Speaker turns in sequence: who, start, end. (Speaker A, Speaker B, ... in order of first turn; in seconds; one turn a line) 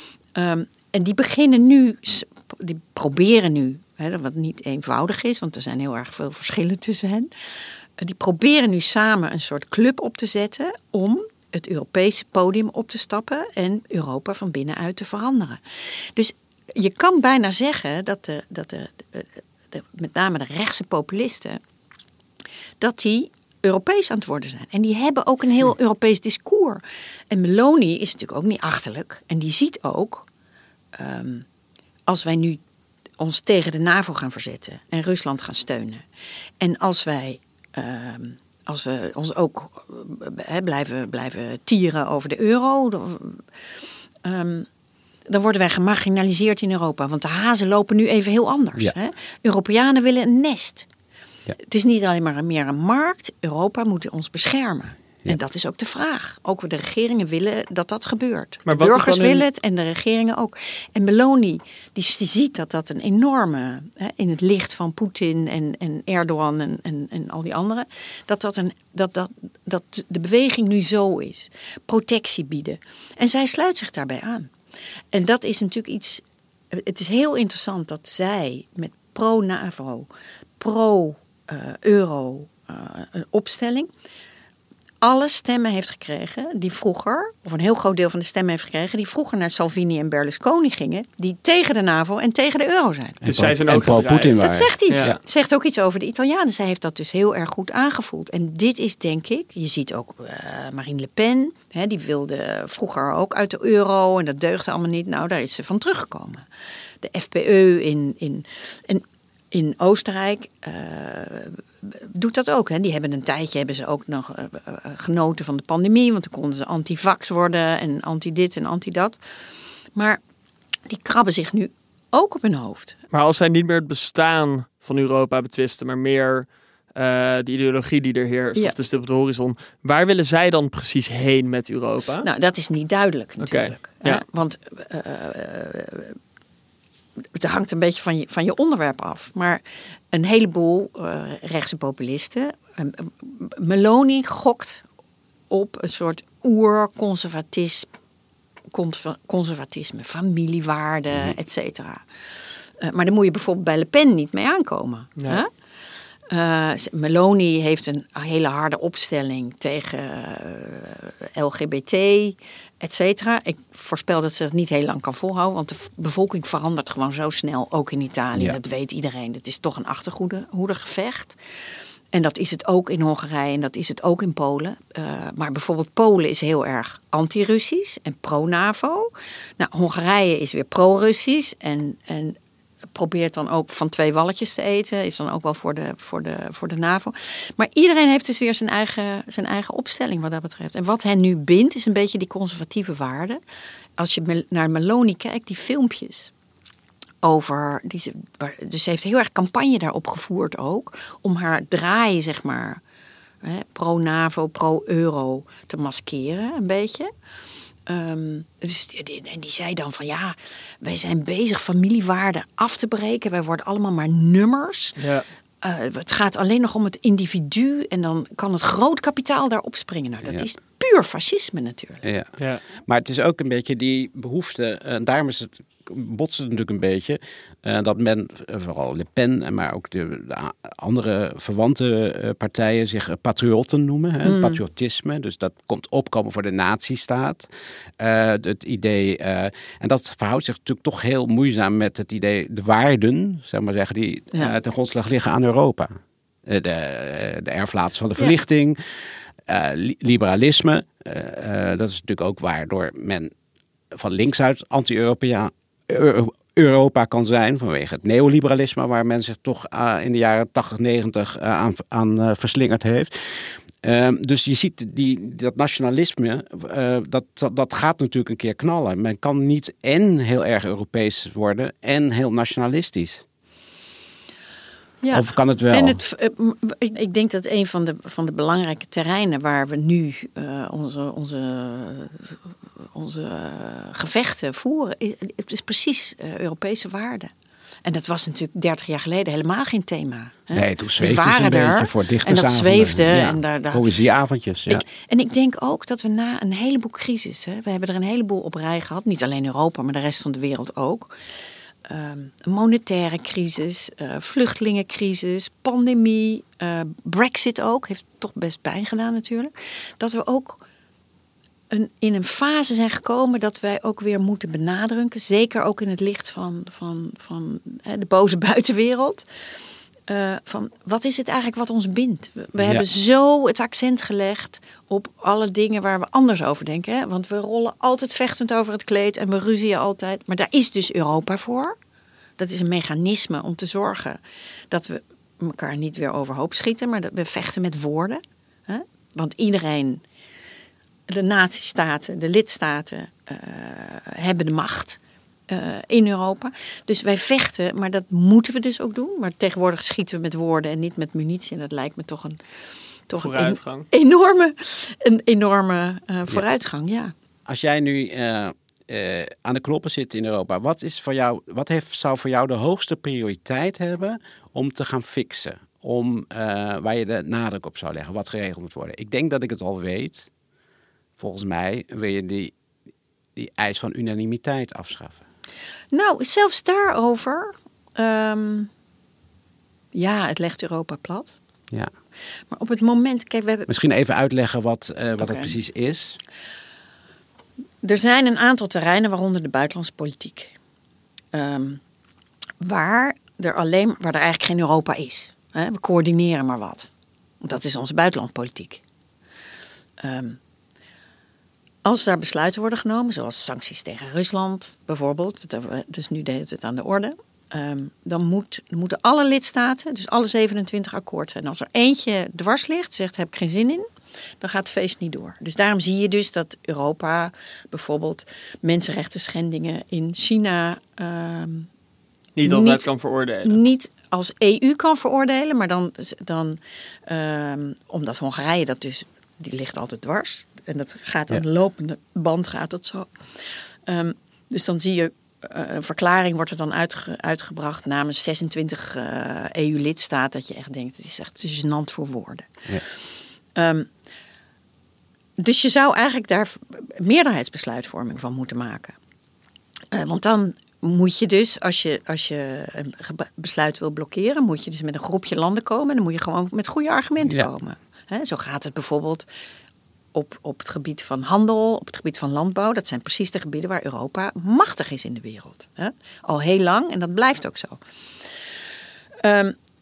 Speaker A: 0.3-7.3
Speaker A: 8.0-15.6
Speaker A: 16.1-21.6
Speaker A: 22.8-30.3
Speaker A: 30.9-31.4
Speaker A: 32.1-32.6
Speaker A: 33.2-36.0
Speaker A: 36.6-43.5
Speaker A: 44.2-44.7
Speaker A: 45.3-50.9
Speaker A: 51.6-74.5
Speaker B: 58.7-59.5
Speaker A: 75.1-83.9
Speaker A: 85.0-93.2
Speaker C: 93.2-95.2
Speaker B: 93.3-95.2
Speaker A: 94.4-106.4
Speaker A: 107.0-119.2
Speaker A: 120.0-120.2
Speaker A: 120.9-123.0
Speaker B: 123.1-132.3
Speaker A: 132.2-136.2
Speaker B: 133.4-134.2
Speaker A: 137.3-144.8
Speaker A: 145.5-147.9
Speaker A: 148.7-152.1
Speaker A: 152.8-155.5
Speaker A: 156.3-171.4
Speaker A: 172.1-182.4
Speaker A: 182.9-193.4
Speaker A: 194.0-196.3
Speaker A: 197.2-202.8
Speaker A: 203.4-207.1
Speaker A: 207.9-215.0
Speaker B: 215.0-215.3
Speaker A: 215.6-222.0
Speaker C: 222.0-237.5
Speaker B: 222.4-222.6
Speaker A: 234.2-234.6
Speaker C: 238.0-245.9
Speaker C: 246.4-248.8
Speaker C: 249.4-253.3
Speaker C: 253.9-273.2
Speaker A: 275.0-282.4
Speaker C: 275.1-276.0
Speaker A: 282.9-287.3
Speaker A: 287.9-293.9
Speaker C: 290.5-294.8
Speaker A: 294.7-301.1
Speaker A: 301.9-310.6
Speaker A: 311.7-319.2
Speaker A: 320.1-331.8
Speaker C: 322.6-322.9
Speaker A: 332.4-334.2
Speaker A: 334.7-340.0
Speaker A: 341.1-352.4
Speaker A: 353.1-357.1
Speaker B: 353.2-353.9
Speaker C: 357.5-370.3
Speaker C: 371.2-372.5
Speaker C: 373.4-375.2
Speaker A: 375.9-378.7
Speaker A: 379.9-381.4
Speaker A: 382.5-383.7
Speaker C: 383.7-386.2
Speaker A: 385.2-385.6
Speaker A: 387.8-390.6
Speaker A: 391.3-391.8
Speaker A: 392.6-396.9
Speaker A: 397.4-398.8
Speaker A: 400.0-400.4
Speaker A: 401.9-413.9
Speaker A: 414.4-421.7
Speaker B: 422.4-423.6
Speaker A: 422.4-422.9
Speaker A: 423.4-433.1
Speaker A: 433.9-442.5
Speaker A: 443.6-443.9
Speaker A: 445.4-448.9
Speaker A: 449.9-459.3
Speaker A: 460.1-467.8
Speaker A: 469.2-469.6